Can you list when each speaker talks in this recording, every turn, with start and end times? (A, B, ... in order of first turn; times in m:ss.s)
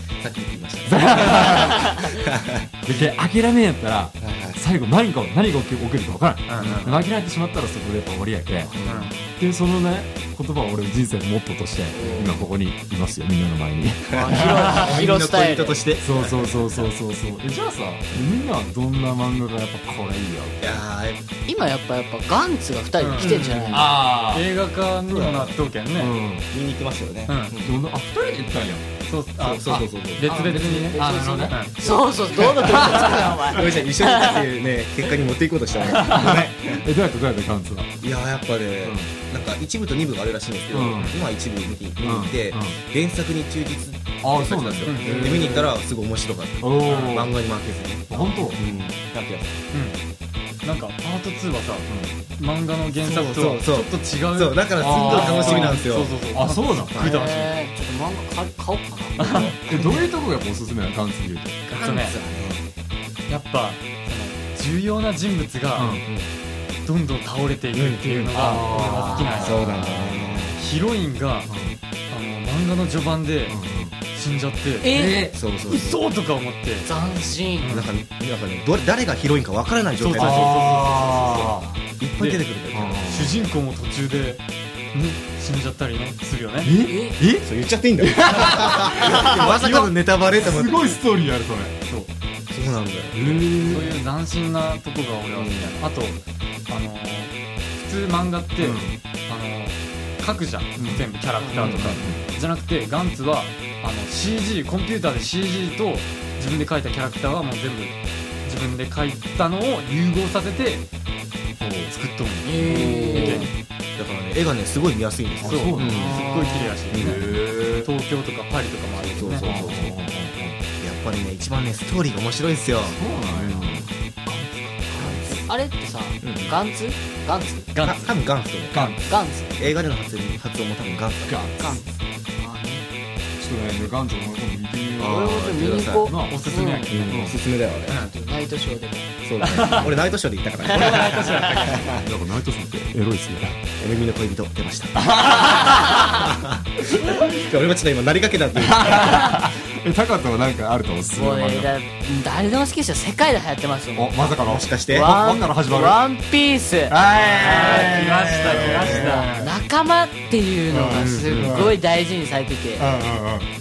0:00.2-0:01.6 A
0:00.9-0:02.0 B
0:02.2-0:02.7 A
0:02.8-0:08.7 B
0:04.2-0:04.6 A
0:06.5-0:07.0 C
0:06.6-0:07.0 A
0:08.7-0:09.4 D
0:08.7-0:09.1 A
0:08.8-0:09.1 C
0:09.3-0:15.0 B
0:11.9-0:12.5 A
0:12.0-0:12.4 D
0:14.1-0:16.8 A
0:14.1-0:15.8 D
0:16.0-0:20.8 B
0:20.6-0:21.2 A
0:21.5-0:23.9 D
0:23.0-0:23.4 C
0:23.2-0:23.9 A
0:23.7-0:24.4 B
0:24.3-0:26.2 C
0:25.1-0:25.6 A
0:26.0-0:26.4 B
0:26.5-0:27.8 A
0:27.3-0:27.5 C
0:27.6-0:28.9 B
0:29.0-0:29.6 C
0:29.4-0:30.2 A
0:29.6-0:31.6 B
0:30.2-0:31.8 C
0:30.9-0:34.5 D
0:32.6-0:33.6 B
0:32.7-0:36.8 A
0:36.0-0:37.9 B
0:38.0-0:49.5 A
0:38.8-0:39.1 B
0:40.7-0:41.2 B
0:40.9-0:41.2 C
0:42.0-0:42.8 B
0:44.2-0:45.8 B
0:44.8-0:45.5 C
0:46.6-0:47.3 B
0:48.1-0:48.6 B
0:48.6-0:49.0 D
0:49.7-0:50.0 C
0:50.6-0:57.6 C
0:52.9-0:56.2 A
0:54.8-0:57.0 B
0:56.9-0:57.2 A
0:57.0-0:59.6 D
0:59.2-1:00.1 A
0:59.2-0:59.6 C
0:59.7-1:01.6 B
1:01.7-1:02.2 C
1:01.7-1:02.7 A
1:03.3-1:06.0 C
1:05.8-1:06.0 B
1:06.0-1:06.3 A
1:06.8-1:09.6 C
1:07.7-1:08.5 A
1:08.3-1:10.6 B
1:08.7-1:09.6 D
1:09.4-1:10.6 A
1:10.6-1:11.5 C
1:11.5-1:11.8 B
1:12.1-1:13.6 C
1:13.5-1:13.9 B
1:14.1-1:14.9 C
1:14.8-1:15.3 D
1:14.9-1:15.4 B
1:15.3-1:16.0 A
1:15.7-1:16.9 C
1:16.8-1:17.7 D
1:17.6-1:17.9 C
1:17.7-1:20.5 A
1:20.0-1:21.6 C
1:20.1-1:21.6 B
1:20.6-1:21.8 D
1:22.0-1:23.0 A
1:22.2-1:22.5 C
1:22.7-1:23.4 B
1:23.1-1:26.7 C
1:26.6-1:27.5 B
1:26.9-1:27.2 D
1:27.4-1:30.8 A
1:28.0-1:31.8 B
1:31.8-1:32.1 C
1:32.5-1:33.5 A
1:33.1-1:34.0 B
1:33.6-1:50.9 C
1:35.3-1:35.7 A
1:38.6-1:38.9 B
1:40.8-1:41.0 B
1:41.4-1:41.8 D
1:41.6-1:42.3 B
1:51.6-1:51.9 B
1:51.9-1:53.5 C
1:52.4-1:53.5 D
1:52.8-1:53.4 A
1:54.0-1:56.2 A
1:55.4-1:56.0 B
1:55.4-1:59.5 C
1:55.9-1:56.8 D
1:56.9-1:57.3 A
1:57.0-1:57.9 B
1:59.0-2:00.0 A
1:59.4-2:00.6 B
2:00.8-2:03.9 A
2:02.8-2:04.8 B
2:04.9-2:07.7 D
2:04.9-2:05.5 A
2:06.2-2:06.6 A
2:07.7-2:08.2 C
2:07.8-2:08.8 A
2:08.7-2:09.2 B
2:08.7-2:09.0 C
2:09.1-2:09.6 D
2:09.6-2:11.5 A
2:11.3-2:11.8 B
2:11.6-2:11.9 D
2:12.4-2:12.8 D
2:13.4-2:16.4 B
2:15.0-2:16.1 A
2:15.0-2:16.9 D
2:16.2-2:17.1 C
2:16.9-2:18.0 A
2:17.0-2:17.4 B
2:17.9-2:18.1 C
2:18.0-2:19.2 D
2:19.2-2:22.0 A
2:19.4-2:19.9 C
2:20.7-2:21.8 C
2:22.0-2:23.6 B
2:23.8-2:25.0 A
2:25.0-2:26.2 B
2:26.2-2:26.6 A
2:27.2-2:29.2 A
2:28.6-2:31.7 B
2:31.2-2:34.3 D
2:34.0-2:36.0 B
2:34.4-2:35.1 A
2:34.9-2:38.0 D
2:36.9-2:39.5 B
2:37.1-2:39.3 C
2:38.5-2:42.9 D
2:40.7-2:41.8 B
2:40.9-2:41.7 A
2:42.8-2:43.5 B